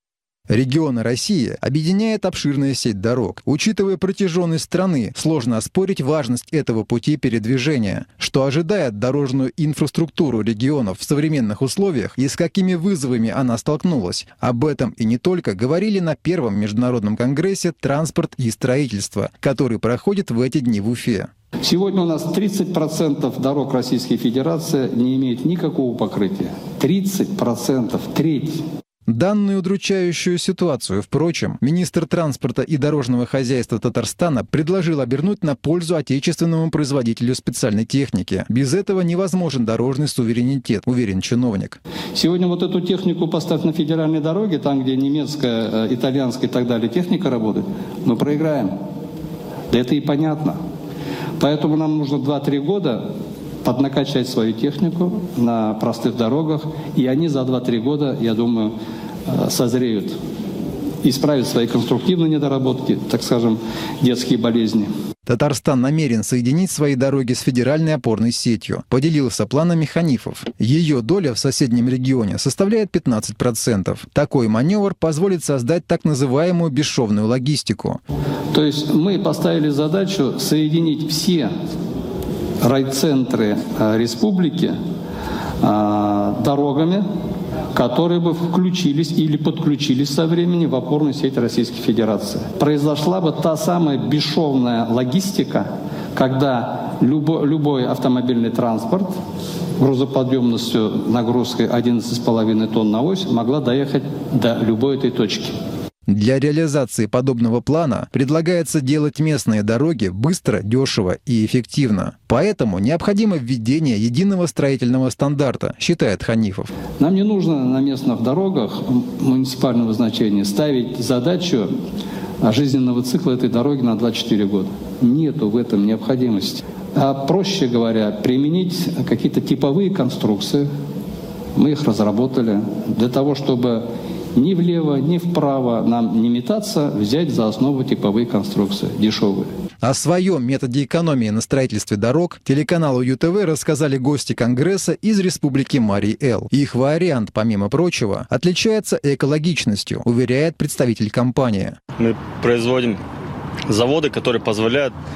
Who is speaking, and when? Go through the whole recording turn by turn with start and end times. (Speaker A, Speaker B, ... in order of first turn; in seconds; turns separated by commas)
Speaker A: 0.5-21.3, Speaker B: 21.6-28.6, Speaker A: 29.1-41.8, Speaker B: 42.1-48.8, Speaker B: 49.7-50.6, Speaker B: 51.4-53.1, Speaker B: 53.6-58.8, Speaker B: 59.3-60.2, Speaker B: 61.0-64.9, Speaker A: 65.3-78.0, Speaker B: 78.5-81.5, Speaker B: 82.6-84.8, Speaker B: 85.6-87.1, Speaker B: 87.7-99.2, Speaker B: 99.8-105.6, Speaker A: 106.1-116.7, Speaker B: 117.0-121.7, Speaker B: 122.4-130.7, Speaker B: 131.6-139.5, Speaker A: 139.8-151.8, Speaker C: 152.0-153.0, Speaker C: 153.7-154.9